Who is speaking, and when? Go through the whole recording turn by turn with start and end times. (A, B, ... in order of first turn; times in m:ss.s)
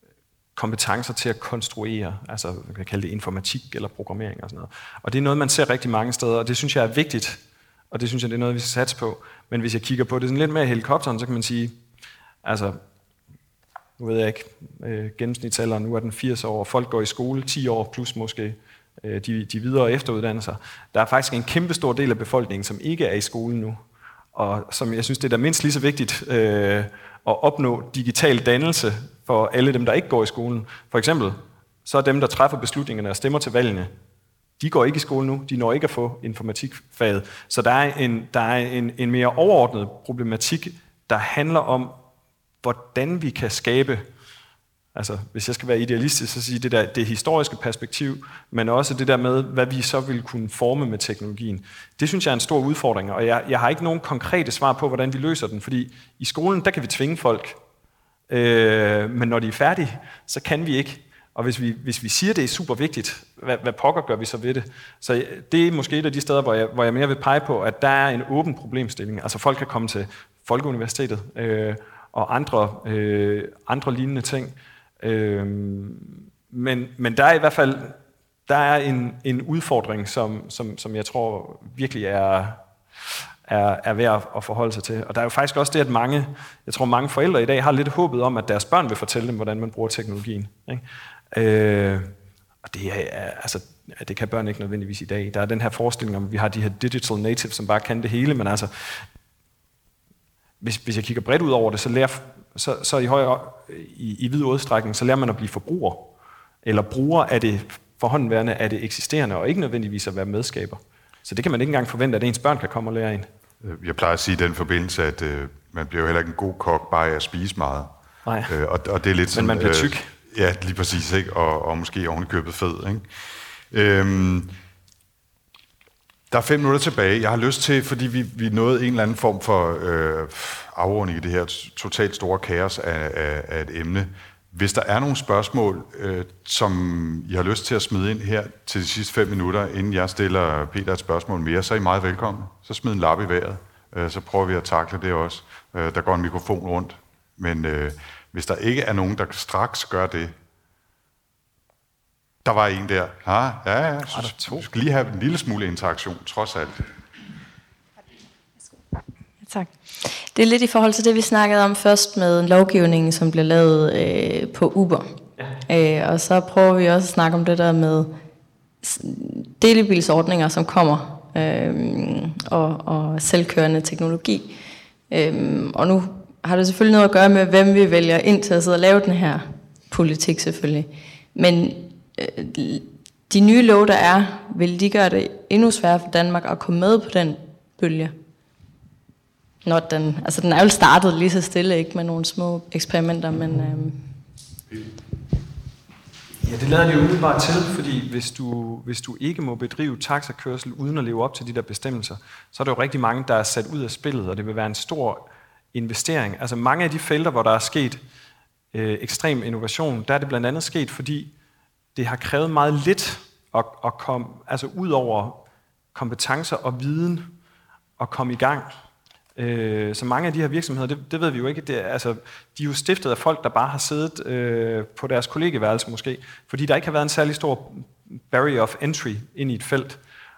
0:00.6-0:11.8 A
0:12.4-0:12.8 A
0:14.0-0:23.8 A
0:24.3-0:33.9 A
0:34.6-0:42.0 A
0:42.6-0:44.1 A
0:45.0-0:57.6 A
0:58.3-1:22.6 A
1:23.5-1:32.1 A
1:32.6-1:39.0 A
1:40.6-1:53.3 A
1:53.6-1:57.9 B
1:58.2-1:58.5 A
1:58.5-2:03.1 B
1:59.3-2:00.1 A
2:03.7-2:04.6 B
2:06.3-2:30.3 B
2:32.4-2:36.8 B
2:34.1-2:34.6 A
2:39.5-2:45.1 C
2:45.7-2:48.2 C
2:48.8-2:54.6 C
2:55.1-3:08.1 C
3:09.6-3:14.0 C
3:16.4-3:28.0 A
3:28.7-3:31.3 A
3:32.0-3:37.4 A
3:38.0-3:38.7 A
3:39.4-3:50.0 A